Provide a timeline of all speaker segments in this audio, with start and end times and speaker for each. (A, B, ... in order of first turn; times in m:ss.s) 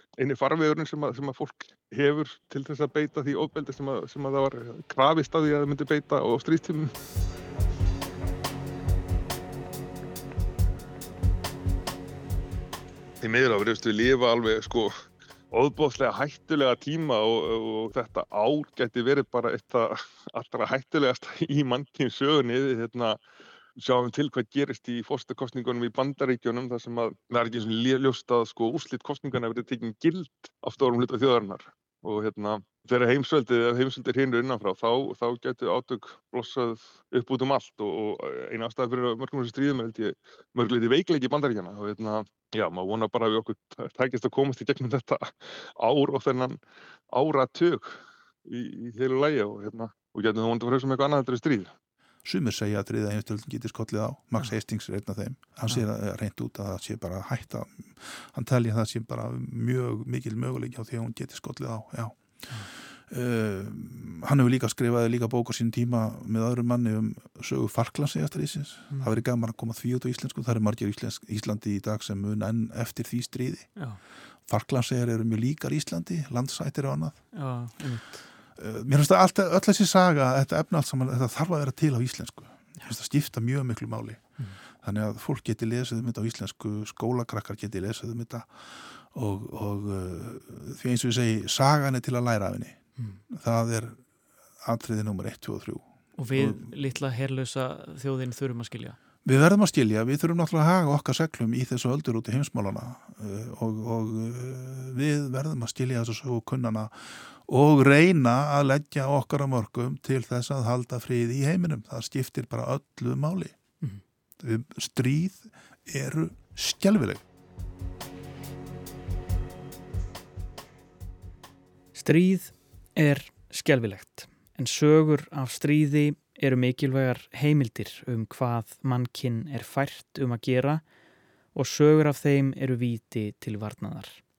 0:00.2-0:06.9 A
0:13.2-0:14.9 A
0:15.5-0:23.2 A
0:23.8-0:46.6 A
0:47.1-0:51.7 A
0:52.2-1:02.2 B
1:03.1-1:13.7 B
1:08.9-1:09.2 C
1:14.5-1:17.2 B
1:17.3-1:18.3 C
1:18.6-1:24.3 B
1:24.8-1:34.0 B
1:34.6-1:35.8 B
1:36.2-1:39.0 C
1:36.4-1:36.7 B
1:39.2-1:53.6 B
1:54.4-1:57.2 B
2:02.0-2:10.8 C
2:11.5-2:14.2 C